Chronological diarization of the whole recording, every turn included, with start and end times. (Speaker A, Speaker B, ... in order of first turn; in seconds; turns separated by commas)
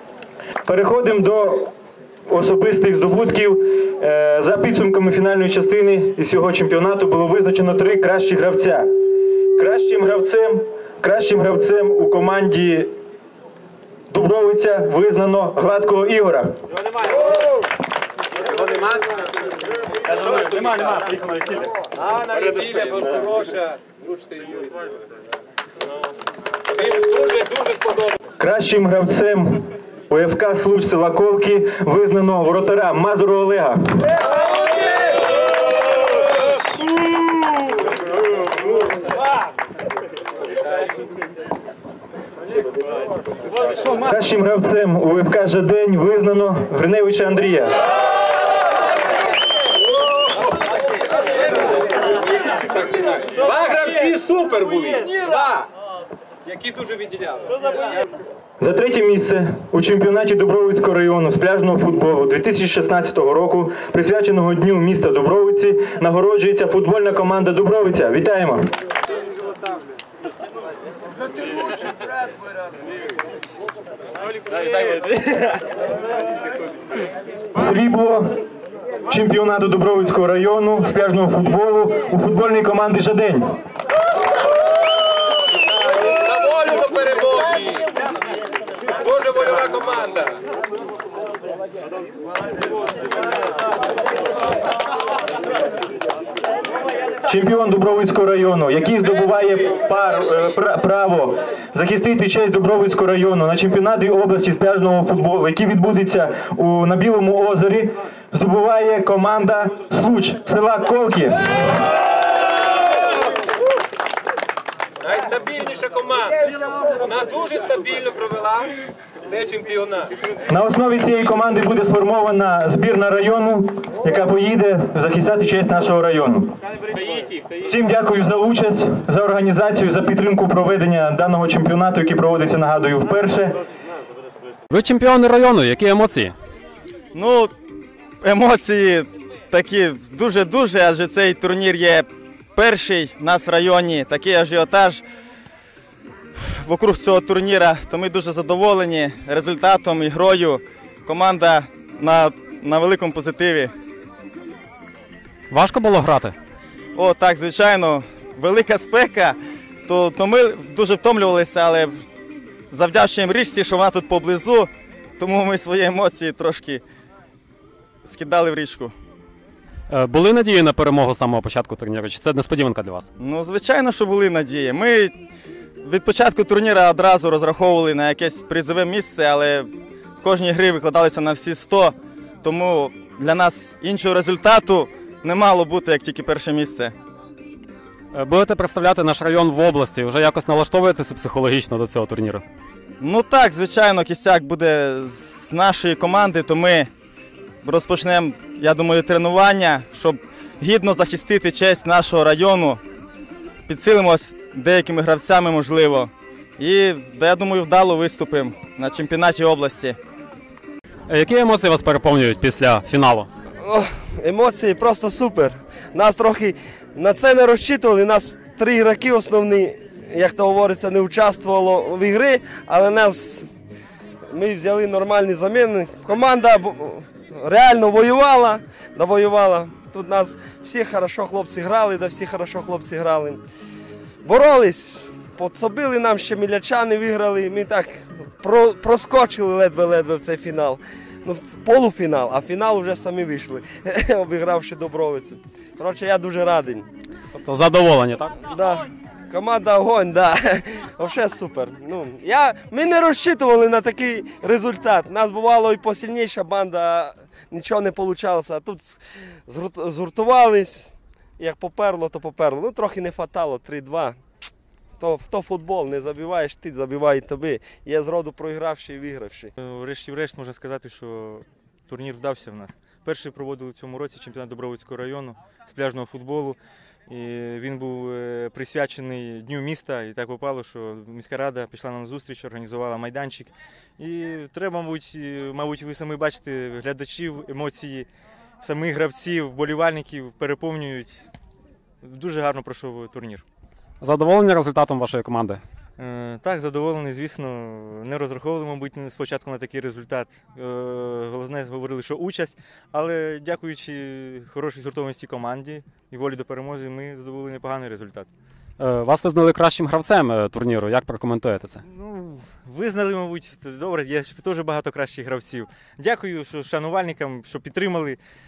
Speaker A: 0.7-1.7, Speaker A: 2.3-8.9, Speaker A: 9.5-12.9, Speaker A: 14.1-16.5, Speaker B: 18.6-19.0, Speaker B: 20.1-21.1, Speaker B: 21.8-24.8, Speaker B: 26.7-28.1, Speaker A: 28.4-33.8, Speaker A: 44.0-47.7, Speaker B: 53.1-55.7, Speaker B: 56.5-57.5, Speaker A: 58.6-68.7, Speaker A: 77.5-78.3, Speaker A: 79.1-83.5, Speaker B: 85.9-87.9, Speaker B: 89.0-90.4, Speaker A: 97.3-111.4, Speaker B: 115.0-118.7, Speaker B: 119.3-120.1, Speaker A: 120.5-126.5, Speaker A: 127.6-133.6, Speaker C: 134.7-136.3, Speaker D: 137.1-137.5, Speaker D: 138.2-145.0, Speaker D: 146.6-153.7, Speaker C: 155.5-156.3, Speaker D: 156.9-159.3, Speaker D: 159.9-161.9, Speaker D: 162.7-166.8, Speaker D: 168.0-168.9, Speaker C: 169.9-173.1, Speaker D: 173.2-175.1, Speaker D: 175.8-179.7, Speaker D: 180.2-186.9, Speaker C: 188.1-192.4, Speaker D: 193.0-196.9, Speaker D: 197.6-202.8, Speaker D: 203.7-210.0, Speaker C: 211.1-213.3, Speaker E: 213.6-223.5, Speaker E: 224.3-233.4, Speaker E: 234.2-246.9, Speaker C: 247.3-248.4, Speaker E: 248.5-264.2, Speaker E: 265.0-269.5, Speaker A: 269.6-288.1, Speaker A: 288.6-291.3, Speaker A: 292.0-293.4, Speaker C: 294.0-295.6, Speaker A: 296.0-308.3, Speaker C: 308.8-311.8, Speaker A: 311.8-318.2